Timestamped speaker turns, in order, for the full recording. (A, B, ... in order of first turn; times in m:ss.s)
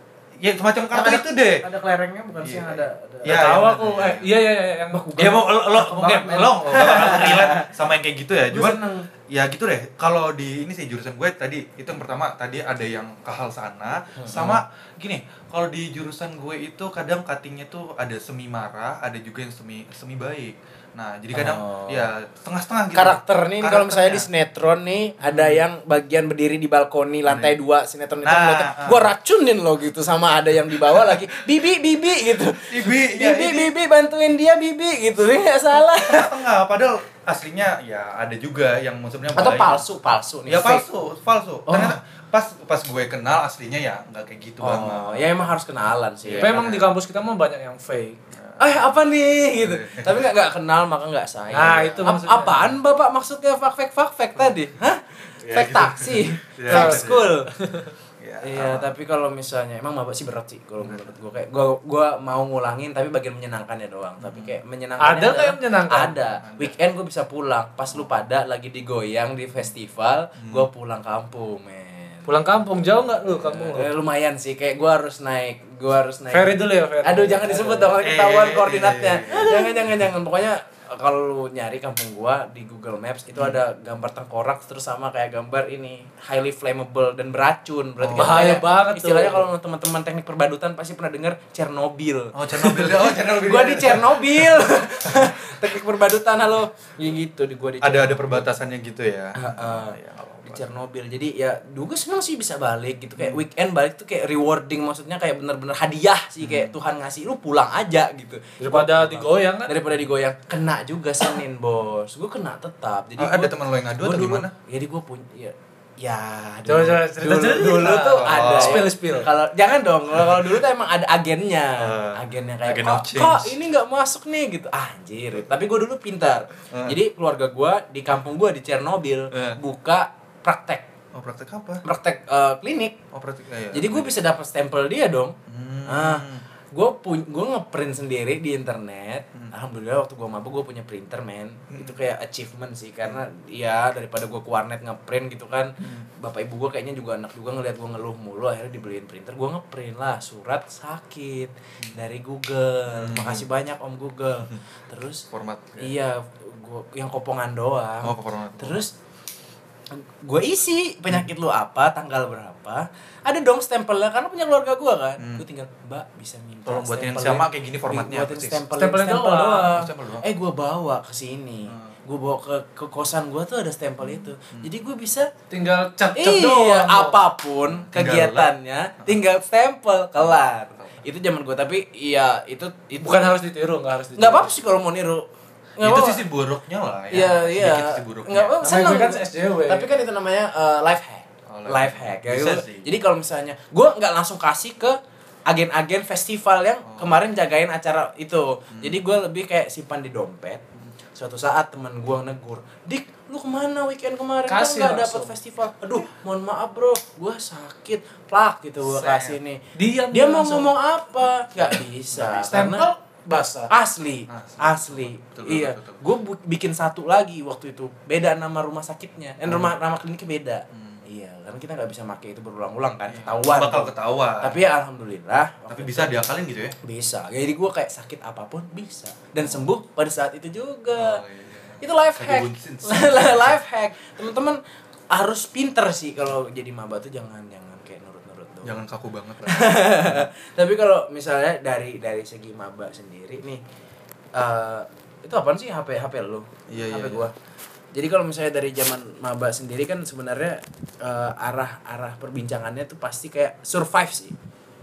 0:00.4-0:01.6 A
0:00.9-0:03.5 B
0:02.4-0:04.3 A
0:03.3-0:05.1 C
0:04.9-0:07.7 B
0:05.2-0:24.3 A
0:06.0-0:06.5 C
0:08.5-0:09.1 B
0:14.2-0:14.6 B
0:21.3-0:22.1 B
0:22.9-0:36.4 B
0:25.2-0:25.6 A
0:27.3-0:27.5 A
0:28.2-0:29.1 A
0:32.7-0:33.7 A
0:35.8-0:39.8 A
0:39.4-0:40.8 B
0:40.5-0:45.5 A
0:41.7-0:42.0 B
0:44.6-0:46.8 B
0:46.2-0:46.9 A
0:46.4-0:48.2 C
0:48.4-0:48.9 A
0:48.6-0:57.5 B
0:49.6-0:50.3 A
0:51.5-0:52.6 C
0:55.4-0:57.4 A
0:56.7-0:57.0 C
0:57.6-0:57.9 C
0:58.2-0:58.9 A
0:58.4-1:12.3 B
1:00.8-1:01.2 A
1:04.2-1:04.6 A
1:05.0-1:06.1 C
1:06.4-1:06.8 A
1:10.4-1:10.7 A
1:12.3-1:13.9 C
1:13.4-1:13.7 A
1:13.7-1:38.5 B
1:16.3-1:18.0 C
1:18.0-1:20.1 A
1:23.3-1:23.6 A
1:28.0-1:28.6 A
1:28.2-1:29.5 C
1:32.4-1:35.5 A
1:37.8-1:40.7 A
1:39.4-2:10.9 B
1:43.2-1:43.4 A
1:46.4-1:46.8 A
1:48.6-1:49.8 C
1:53.2-1:54.5 A
1:56.7-1:59.3 C
1:57.4-1:58.9 A
2:00.2-2:00.6 A
2:01.8-2:03.6 A
2:06.7-2:07.0 A
2:09.3-2:09.6 A
2:11.1-2:11.8 A
2:11.8-2:13.0 B
2:13.1-2:14.1 A
2:13.7-2:15.4 B
2:15.5-2:16.4 A
2:15.9-2:35.3 B
2:21.7-2:22.0 A
2:25.8-2:26.1 A
2:32.9-2:33.5 A
2:35.3-2:35.9 A
2:35.8-2:38.9 B
2:38.0-2:38.9 A
2:39.9-2:55.3 B
2:45.2-2:45.4 A
2:46.7-2:48.6 A
2:48.8-2:49.7 C
2:49.7-2:50.3 A
2:54.2-2:54.7 A
2:55.5-2:57.2 C
2:56.2-3:03.3 B
2:57.8-2:58.5 A
3:00.2-3:00.9 A
3:03.0-3:04.5 C
3:04.2-3:05.3 B
3:05.8-3:06.2 B
3:05.8-3:08.6 A
3:07.1-3:20.6 B
3:08.6-3:09.9 C
3:11.5-3:12.9 A
3:16.8-3:17.2 A
3:18.7-3:19.0 A
3:21.1-3:32.9 B
3:24.5-3:25.4 C
3:28.9-3:29.4 A
3:29.8-3:30.8 C
3:32.2-3:33.7 C
3:33.7-3:46.2 B
3:34.3-3:36.0 A
3:39.5-3:39.7 A
3:40.7-3:41.0 A
3:43.1-3:44.6 A
3:45.7-3:46.8 A
3:46.8-3:51.2 B
3:49.4-3:49.7 A
3:51.0-3:53.6 A
3:51.8-3:54.6 B
3:55.1-3:58.8 B
3:58.6-4:00.3 A
3:59.4-4:03.6 B
4:04.4-4:07.3 B
4:06.7-4:07.3 A
4:07.9-4:14.3 B